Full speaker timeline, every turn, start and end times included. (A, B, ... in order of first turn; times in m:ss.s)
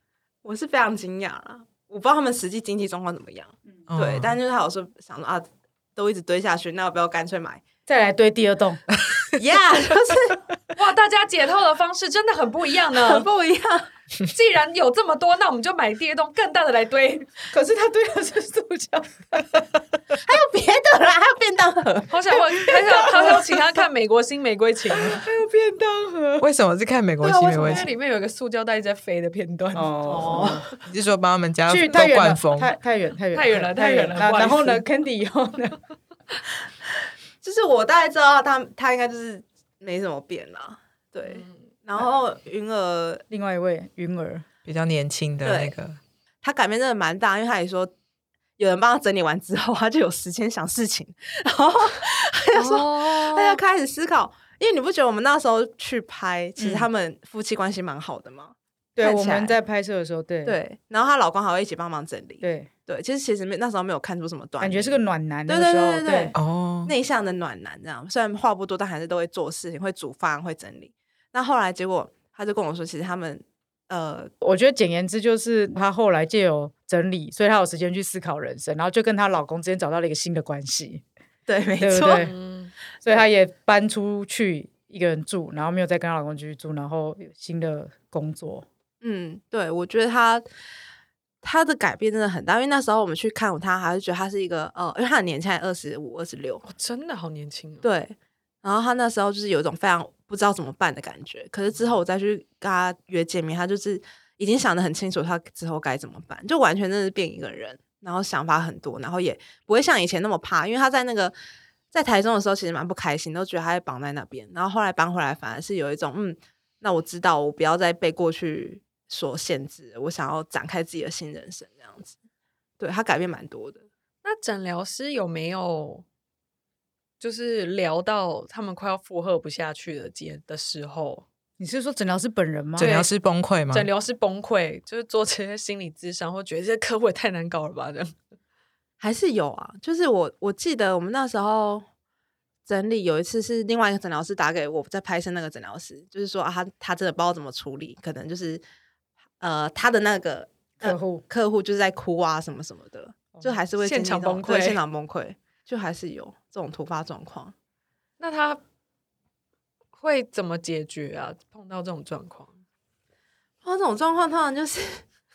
0:00.4-0:07.6 A
0:03.9-0:04.4 B
0:07.9-0:08.8 C
0:09.3-0:10.4 A
0:10.7-0:13.3 D
0:13.0-0:13.9 A
0:14.3-0:17.3 D
0:17.5-0:19.6 C
0:20.2-0:22.1 A
0:22.1-0:25.2 D
0:22.9-0:23.5 C
0:25.0-0:26.5 C
0:26.4-0:27.9 B
0:27.2-0:30.5 D
0:29.7-0:30.6 C
0:30.1-0:30.7 A
0:30.9-0:32.7 B
0:31.7-0:35.8 C
0:33.3-0:34.8 D
0:37.4-0:43.2 A
0:41.2-0:41.6 D
0:43.3-0:44.4 C
0:44.6-0:46.0 B
0:45.4-0:45.7 A
0:46.4-0:47.9 A
0:48.6-0:59.6 A
0:52.5-0:53.6 D
0:56.6-0:56.9 C
0:59.0-1:00.6 C
1:00.4-1:14.3 A
1:02.4-1:02.7 C
1:04.6-1:06.3 C
1:06.3-1:06.9 B
1:14.4-1:21.0 C
1:21.5-1:22.3 A
1:21.8-1:22.3 C
1:22.2-1:22.7 D
1:23.0-1:28.6 C
1:29.0-1:30.4 A
1:31.4-1:36.6 A
1:36.6-1:37.8 D
1:37.8-1:51.3 A
1:51.9-2:02.1 A
2:02.8-2:03.8 A
2:04.2-2:06.0 D
2:07.2-2:11.2 D
2:11.6-2:13.0 C
2:12.8-2:13.1 D
2:12.8-2:13.9 B
2:13.7-2:18.1 D
2:19.0-2:21.8 A
2:22.6-2:28.6 A
2:29.4-2:37.5 A
2:30.8-2:31.2 C
2:33.8-2:34.8 D
2:38.2-2:38.6 D
2:40.0-2:42.5 D
2:43.6-2:45.0 A